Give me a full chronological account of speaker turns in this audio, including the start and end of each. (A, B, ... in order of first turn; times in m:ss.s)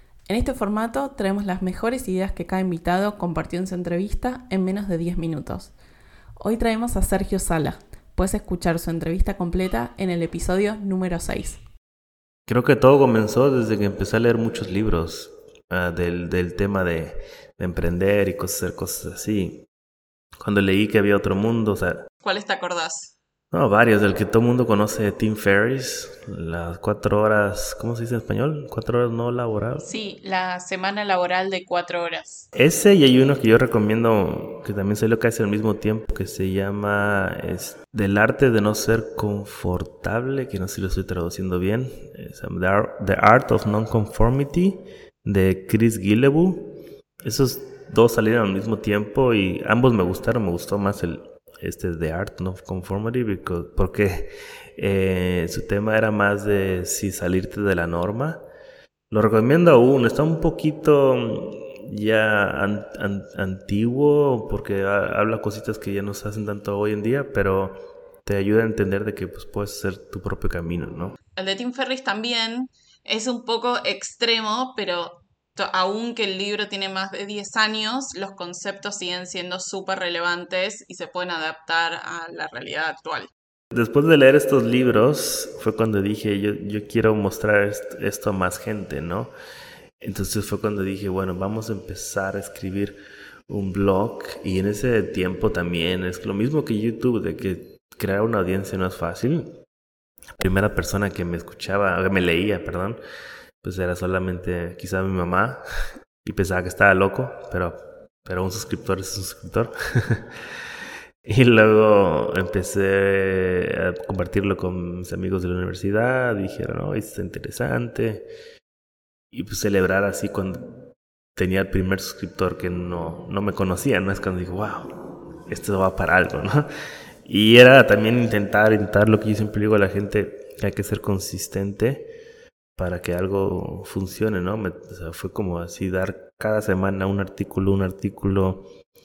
0:00.3-0:05.7 A
0:06.4-0:11.6 A
0:12.4-0:19.6 B
0:20.4-0:22.0 B
0:22.2-0:23.1 C
0:23.5-0:29.9 B
0:29.8-0:32.4 C
0:32.5-0:58.4 B
0:59.1-1:11.1 B
1:11.4-1:23.3 C
1:23.7-1:29.3 B
1:30.0-1:33.0 B
1:33.5-1:39.6 B
1:40.4-1:43.0 B
1:43.6-1:45.6 B
1:46.2-1:50.5 B
1:51.2-1:58.3 B
1:59.3-2:04.9 B
2:05.5-2:06.7 B
2:07.2-2:12.1 B
2:12.8-2:18.7 B